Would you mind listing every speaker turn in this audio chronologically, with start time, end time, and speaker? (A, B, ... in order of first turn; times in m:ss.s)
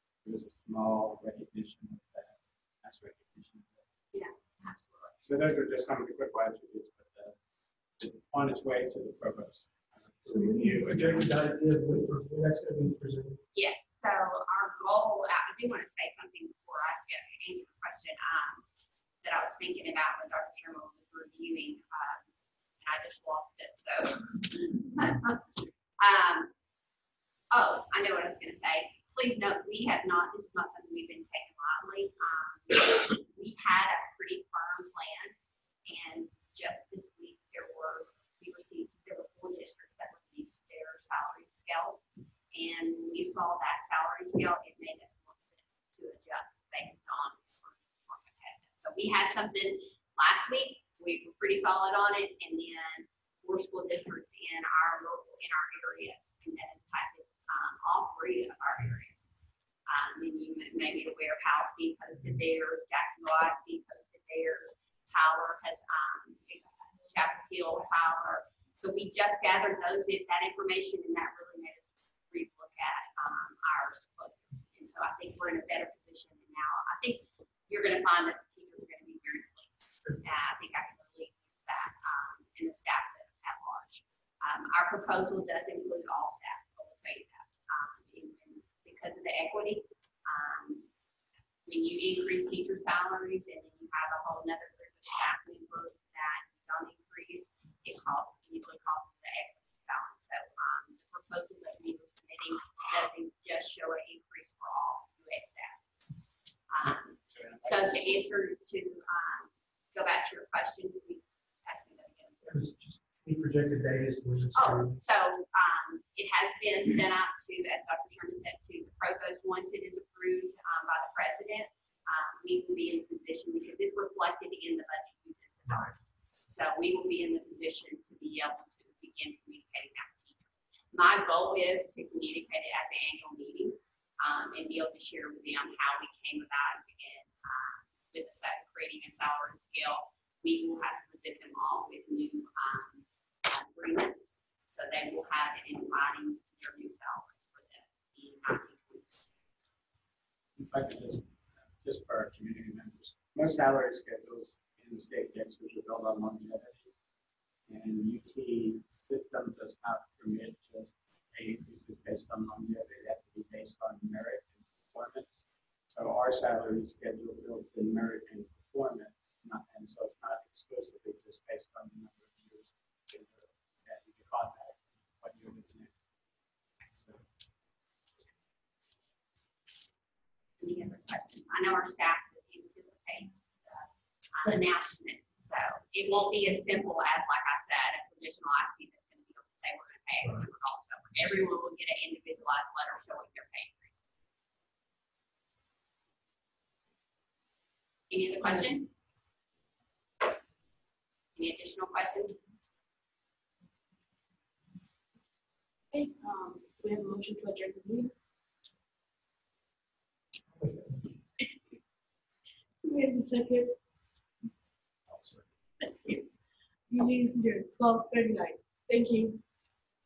0:00.2-0:03.9 A
0:04.1-0:05.2 B
0:05.2-0:07.4 A
0:08.0-0:11.5 A
0:10.2-0:13.4 C
0:13.5-0:18.6 B
0:19.2-0:22.2 B
0:22.8-0:25.4 B
0:26.0-0:26.5 B
0:27.5-0:35.3 B
0:35.8-0:59.3 B
0:59.9-1:30.9 B
1:31.6-1:45.8 B
1:46.7-1:52.6 B
1:46.8-1:48.0 A
1:52.5-1:55.0 C
1:54.5-2:05.9 B
2:06.5-2:29.2 B
2:30.6-2:36.9 A
2:37.7-2:56.0 A
2:56.8-2:57.2 A
3:00.6-3:14.0 B
3:18.1-3:18.9 B
3:21.4-3:22.4 B
3:25.9-3:28.1 D
3:30.5-3:31.2 C
3:32.8-3:33.8 D
3:35.8-3:36.3 D
3:36.9-3:39.4 D